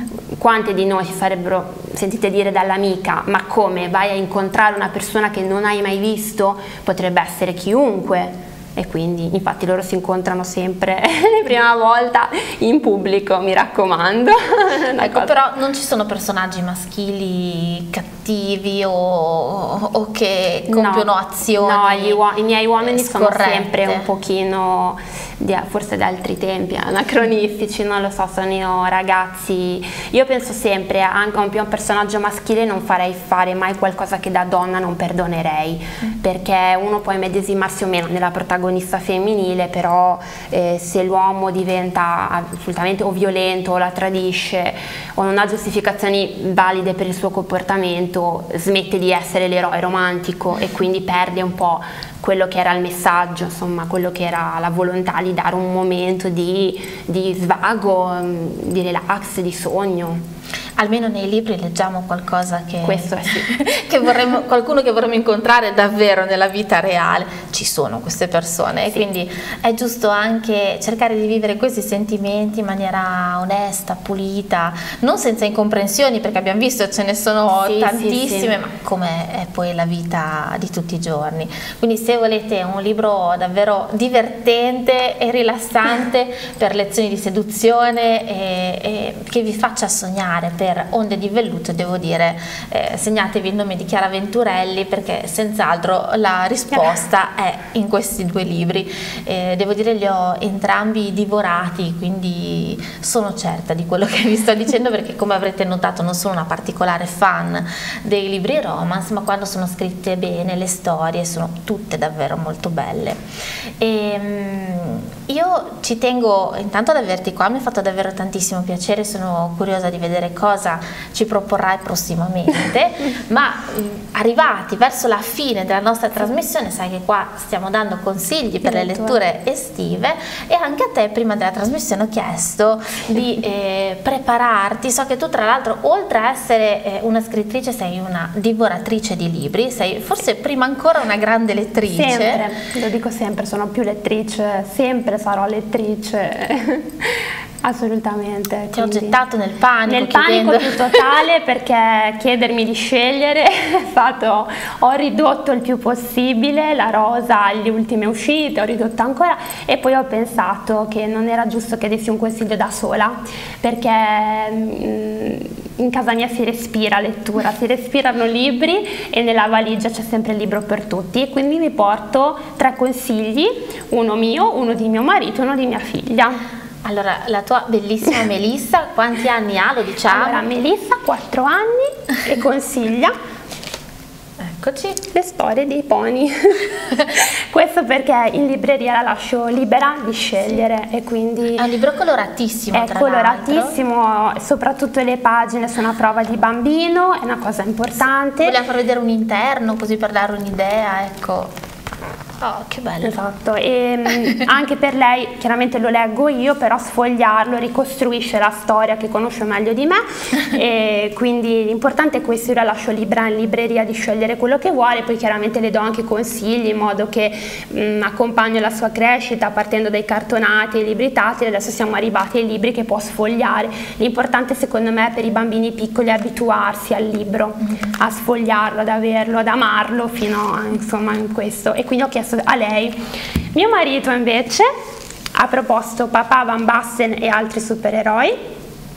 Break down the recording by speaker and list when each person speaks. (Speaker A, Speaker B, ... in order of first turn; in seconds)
Speaker A: 0.3-15.3, 20.7-60.2, 62.8-63.6, 77.5-78.5, 128.6-129.2, 141.8-149.2, 149.9-176.4, 180.1-183.1, 185.1-191.6, 192.7-198.6, 203.0-233.0, 233.5-234.7, 235.3-238.3
Speaker B: 15.0-22.2, 22.8-24.1, 60.8-113.2, 113.8-142.4, 148.7-151.0, 176.8-180.4, 184.4-185.0, 191.6-193.8, 198.4-201.5, 202.4-203.2